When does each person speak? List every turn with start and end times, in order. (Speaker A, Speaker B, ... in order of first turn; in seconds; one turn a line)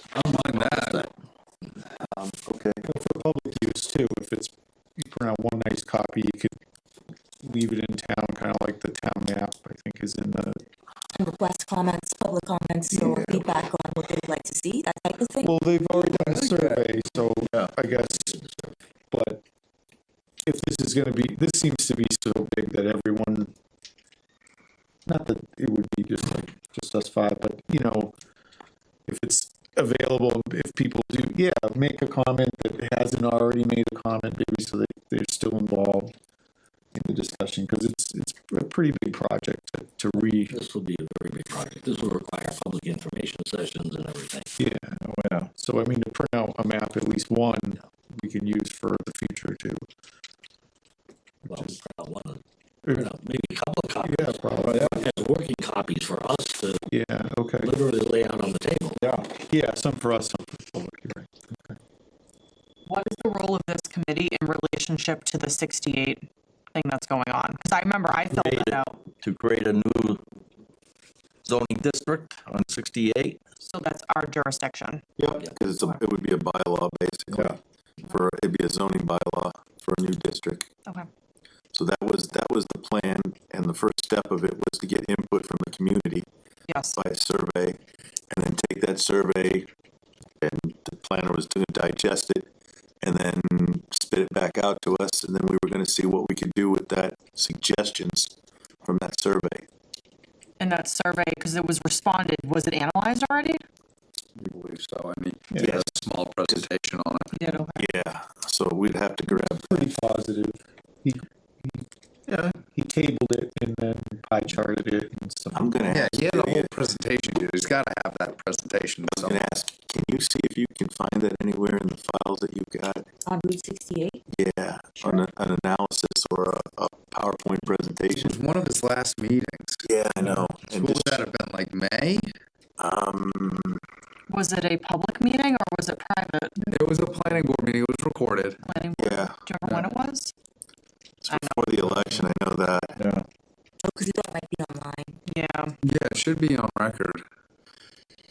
Speaker A: 0.1-1.0
Speaker B: 0.4-1.1
Speaker C: 2.1-2.8
Speaker D: 2.8-6.6
Speaker D: 7.4-10.6
Speaker E: 11.1-15.6
Speaker D: 15.4-18.4
Speaker B: 16.1-16.8
Speaker F: 18.2-18.7
Speaker D: 19.1-19.4
Speaker D: 20.4-23.5
Speaker D: 25.1-28.1
Speaker D: 29.1-36.1
Speaker D: 37.0-40.6
Speaker F: 40.5-44.5
Speaker D: 44.6-45.0
Speaker B: 45.0-45.5
Speaker D: 45.6-49.8
Speaker F: 51.5-56.9
Speaker D: 54.0-55.1
Speaker B: 54.7-55.0
Speaker D: 56.9-57.8
Speaker F: 57.6-59.0
Speaker B: 59.0-59.3
Speaker D: 59.5-61.8
Speaker G: 62.9-69.0
Speaker B: 69.2-70.2
Speaker B: 71.5-73.4
Speaker G: 73.7-75.0
Speaker C: 75.2-77.5
Speaker B: 77.3-77.6
Speaker C: 78.1-80.7
Speaker C: 81.7-86.3
Speaker G: 86.7-87.0
Speaker C: 86.9-87.8
Speaker C: 88.3-89.7
Speaker C: 90.4-92.5
Speaker C: 93.0-98.3
Speaker C: 98.8-99.7
Speaker G: 100.6-103.6
Speaker A: 104.4-107.4
Speaker C: 105.6-105.9
Speaker G: 107.4-107.9
Speaker C: 107.8-109.9
Speaker D: 109.6-111.8
Speaker D: 112.5-115.7
Speaker C: 115.5-116.7
Speaker A: 115.9-119.4
Speaker C: 119.1-123.1
Speaker E: 123.3-124.2
Speaker C: 124.3-128.4
Speaker A: 128.1-132.3
Speaker C: 129.8-131.2
Speaker C: 132.8-133.8
Speaker G: 134.3-136.6
Speaker A: 136.6-138.6
Speaker G: 138.6-140.3
Speaker C: 139.0-139.4
Speaker C: 141.2-143.0
Speaker G: 141.3-141.8
Speaker B: 143.0-143.2
Speaker E: 143.8-145.2
Speaker G: 145.3-145.8
Speaker A: 145.8-147.2